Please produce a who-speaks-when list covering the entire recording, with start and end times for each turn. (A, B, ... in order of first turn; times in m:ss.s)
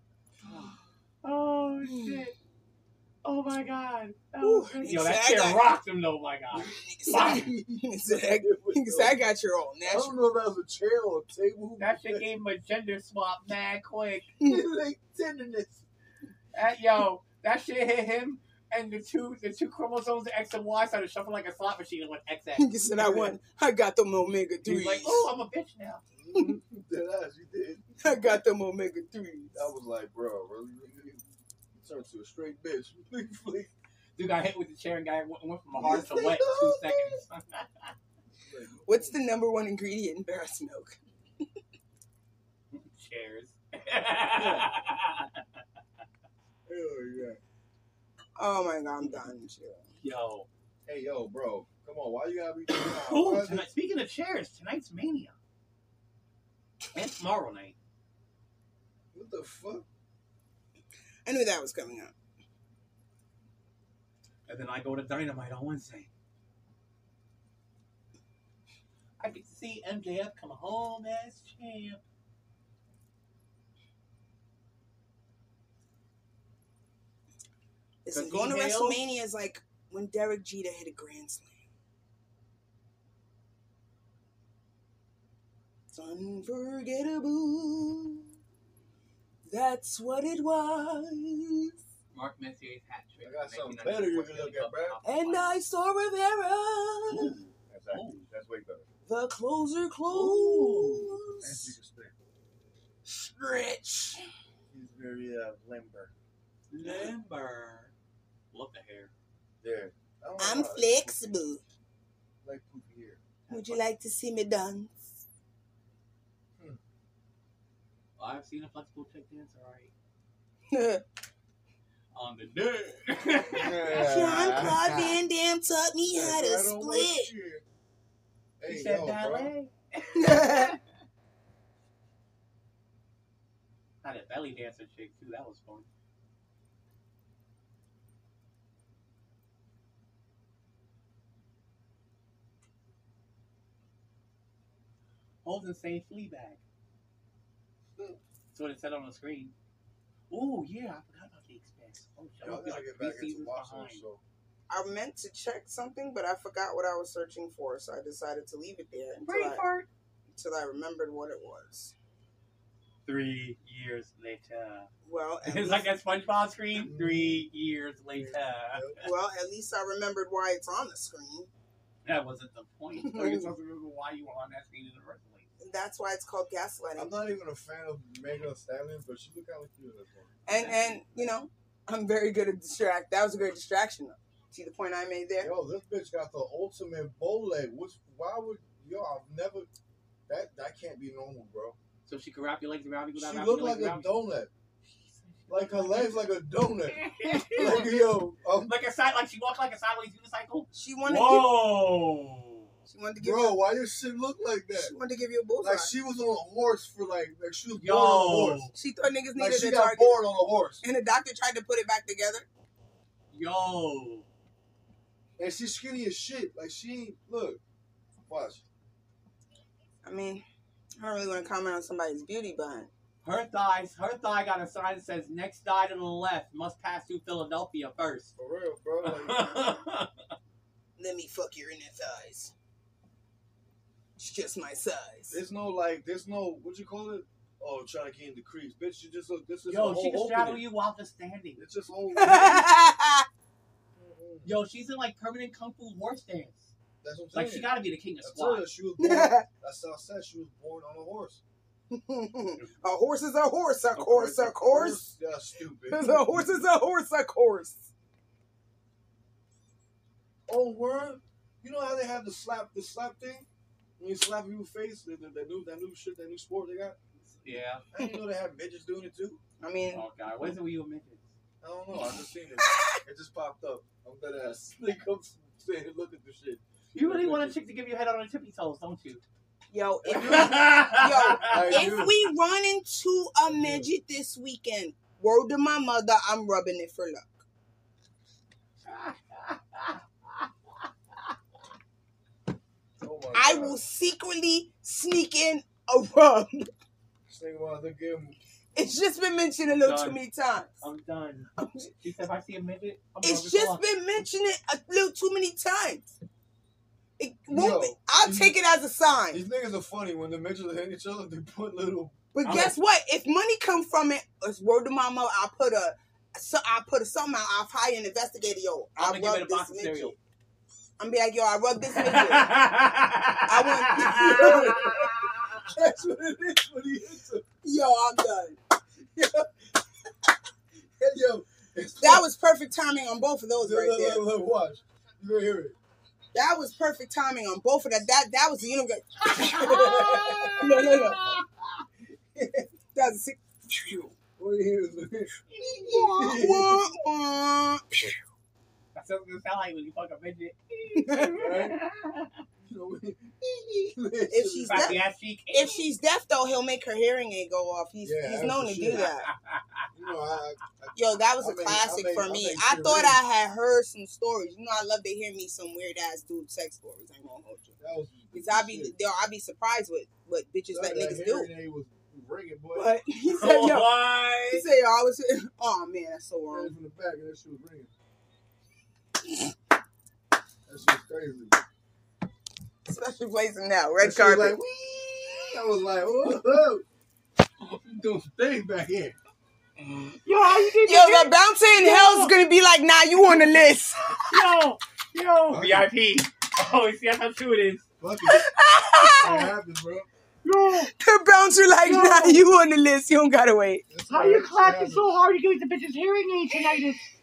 0:00.4-0:02.4 A
0:01.9-0:02.2 B
0:03.2-0:07.5 A
0:04.4-0:05.7 B
0:06.6-0:10.2 B
0:08.1-0:09.2 C
0:09.9-0:12.3 C
0:11.8-0:14.3 A
0:14.4-0:14.7 B
0:14.4-0:15.8 C
0:16.5-0:23.2 A
0:22.6-0:25.3 B
0:23.0-0:23.3 C
0:24.6-0:26.0 A
0:26.2-0:28.4 C
0:28.0-0:29.6 B
0:29.5-0:33.7 C
0:34.2-0:37.9 A
0:35.8-0:37.2 C
0:38.4-0:39.2 C
0:38.9-0:41.4 B
0:42.7-0:45.4 A
0:44.4-0:44.7 C
0:46.7-0:47.4 C
0:48.4-0:49.8 B
0:50.0-0:50.5 A
0:50.9-0:53.7 C
0:52.7-0:55.4 A
0:56.9-0:57.7 A
0:59.1-0:59.9 C
1:01.3-1:02.1 B
1:04.5-1:06.1 A
1:09.2-1:12.0 A
1:18.0-1:21.6 B
1:18.1-1:19.0 A
1:25.9-1:28.2 B
1:29.4-1:31.7 B
1:32.1-1:35.6 A
1:33.2-1:35.0 C
1:35.0-1:37.4 B
1:37.1-1:38.2 A
1:37.4-1:38.9 C
1:39.1-1:41.7 B
1:40.1-1:41.2 A
1:41.4-1:42.1 C
1:43.2-1:44.2 B
1:44.7-1:46.1 C
1:46.7-1:47.9 A
1:48.5-1:49.1 A
1:49.6-1:51.3 C
1:50.4-1:51.6 B
1:52.4-1:53.2 C
1:53.5-1:53.8 A
1:53.5-1:55.2 B
1:58.2-1:59.9 A
2:00.7-2:01.0 B
2:02.1-2:04.1 A
2:03.5-2:05.2 C
2:03.9-2:07.3 B
2:06.0-2:07.6 C
2:08.6-2:09.5 C
2:08.7-2:10.8 A
2:10.1-2:10.8 B
2:14.0-2:15.9 A
2:25.4-2:26.6 A
2:28.5-2:29.5 A
2:30.3-2:34.0 A
2:32.4-2:34.2 C
2:34.7-2:39.6 B
2:39.3-2:39.9 A
2:40.3-2:41.9 B
2:43.1-2:44.9 A
2:45.0-2:45.9 B
2:45.4-2:49.0 A
2:46.7-2:47.4 C
2:48.1-2:49.0 C
2:49.0-2:51.5 B
2:52.0-2:55.5 A
2:53.0-2:53.5 B
2:55.6-2:57.1 B
2:57.0-3:00.4 C
3:00.4-3:05.5 B
3:00.5-3:01.0 A
3:05.4-3:09.7 C
3:10.3-3:11.8 C
3:12.1-3:14.1 A
3:13.1-3:14.5 C
3:14.8-3:16.2 A
3:15.5-3:18.7 C
3:16.9-3:17.9 A
3:17.4-3:17.8 B
3:18.6-3:22.7 A
3:20.7-3:21.5 B
3:22.9-3:23.6 B
3:23.2-3:25.0 C
3:24.7-3:25.9 B
3:25.6-3:28.7 C
3:27.8-3:28.7 A
3:28.7-3:30.2 B
3:29.4-3:30.8 C
3:30.8-3:32.4 B
3:33.3-3:34.3 A
3:35.4-3:37.6 C
3:38.3-3:38.6 C
3:40.0-3:40.4 B
3:41.0-3:42.9 B
3:43.2-3:48.3 A
3:48.4-3:49.5 C
3:49.0-3:50.1 A
3:51.0-3:52.5 B
3:54.2-3:55.4 B
3:55.3-4:00.6 C
3:59.7-4:01.6 A
4:01.6-4:02.7 C
4:02.1-4:03.3 B
4:04.0-4:04.5 C
4:04.4-4:06.7 A
4:07.0-4:11.4 C
4:07.3-4:08.7 A
4:09.0-4:09.4 B
4:11.9-4:15.0 B
4:14.0-4:14.6 A
4:14.6-4:16.6 C
4:15.9-4:17.9 B
4:20.5-4:23.4 C
4:24.0-4:27.0 C
4:27.3-4:27.8 A
4:27.9-4:29.4 C
4:29.6-4:30.0 B
4:29.9-4:31.3 A
4:31.6-4:37.6 C
4:32.6-4:33.0 B
4:36.9-4:39.2 A
4:39.7-4:47.4 B
4:40.0-4:40.6 C
4:40.1-4:42.1 A
4:41.4-4:42.2 C
4:43.5-4:43.9 C
4:48.9-4:50.4 A
4:53.0-4:53.8 C
4:53.4-4:56.7 B
4:57.3-4:58.4 C
4:58.7-5:00.7 B
4:59.8-5:00.2 A
5:00.8-5:03.8 A
5:01.6-5:01.9 B
5:03.2-5:06.1 B
5:07.2-5:09.4 B
5:07.5-5:08.6 C
5:09.3-5:12.2 C
5:12.3-5:20.2 B
5:12.4-5:12.7 A
5:19.0-5:20.2 A
5:21.0-5:22.5 B
5:21.9-5:25.6 A
5:23.5-5:25.0 B
5:24.1-5:27.4 C
5:27.6-5:28.6 B
5:29.2-5:29.4 C
5:31.0-5:32.3 C
5:32.0-5:34.2 B
5:33.6-5:35.8 C
5:36.3-5:41.2 B
5:39.3-5:41.4 C
5:39.5-5:41.0 A
5:42.4-5:42.7 C
5:42.9-5:44.1 B
5:44.4-5:46.9 C
5:45.5-5:46.4 A
5:45.9-5:47.9 B
5:48.9-5:52.3 A
5:51.1-5:51.5 B
5:51.3-5:51.8 C
5:52.6-5:55.0 C
5:54.3-5:59.3 B
5:54.7-5:55.8 A
5:58.0-5:59.1 C
5:58.9-5:59.9 A
6:00.0-6:03.2 C
6:00.9-6:07.8 B
6:07.8-6:09.0 C
6:08.3-6:11.5 B
6:10.7-6:12.9 C
6:12.7-6:13.9 B
6:13.3-6:14.6 A
6:14.5-6:16.7 B
6:16.5-6:17.9 C
6:20.7-6:21.6 C
6:22.9-6:24.6 B
6:24.0-6:26.8 C
6:27.6-6:29.2 C
6:29.9-6:34.2 B
6:30.2-6:32.4 A
6:34.3-6:38.0 A
6:35.5-6:35.9 C
6:38.0-6:38.4 C
6:38.3-6:39.4 B
6:39.1-6:39.5 A
6:39.1-6:40.1 C
6:40.4-6:40.9 A
6:40.9-6:43.9 B
6:41.8-6:42.4 A
6:43.9-6:45.1 C
6:44.1-6:47.1 A